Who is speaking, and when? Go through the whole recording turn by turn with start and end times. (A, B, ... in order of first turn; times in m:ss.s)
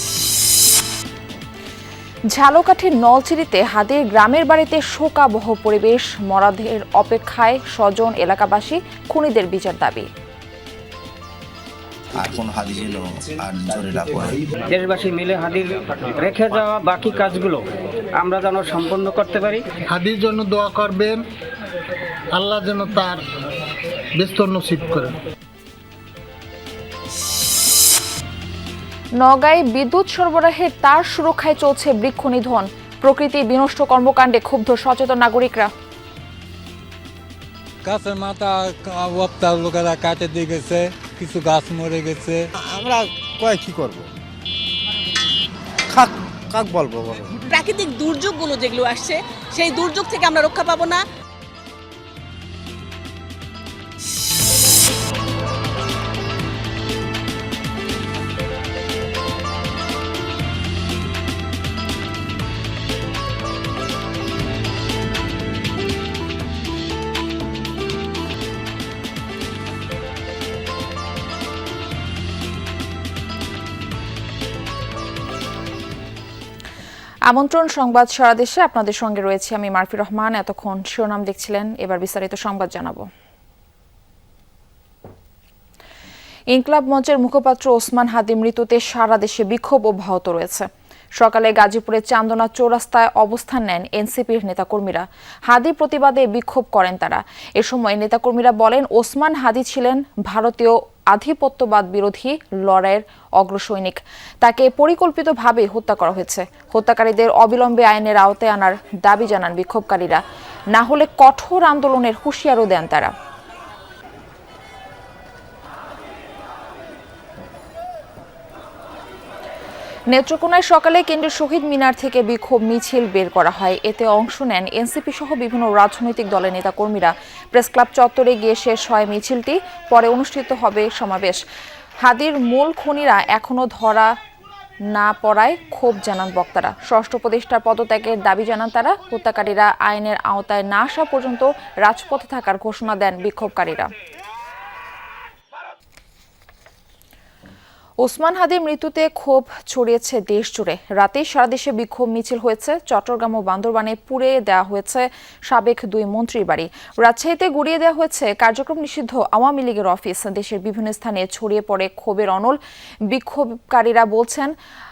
0:02.3-0:10.1 A
0:12.2-0:14.4 B
0:14.7-0:17.6 C
0:18.2-0:19.6 C
0:19.9-0:21.2 D
0:22.3-0:23.2 D
0:24.2-0:25.1 D
0:29.2-0:35.7 A
0:37.8-0:42.4 E
0:42.7-0:44.1 F
0:45.9-0:47.3 F
0:47.5-0:51.0 G
1:17.3-1:23.1 A
1:26.5-1:50.2 A
1:50.7-1:53.1 A
2:00.1-2:11.4 A
2:12.0-2:14.1 A
2:14.9-2:23.9 A
2:28.0-2:42.6 A
2:43.1-2:44.5 A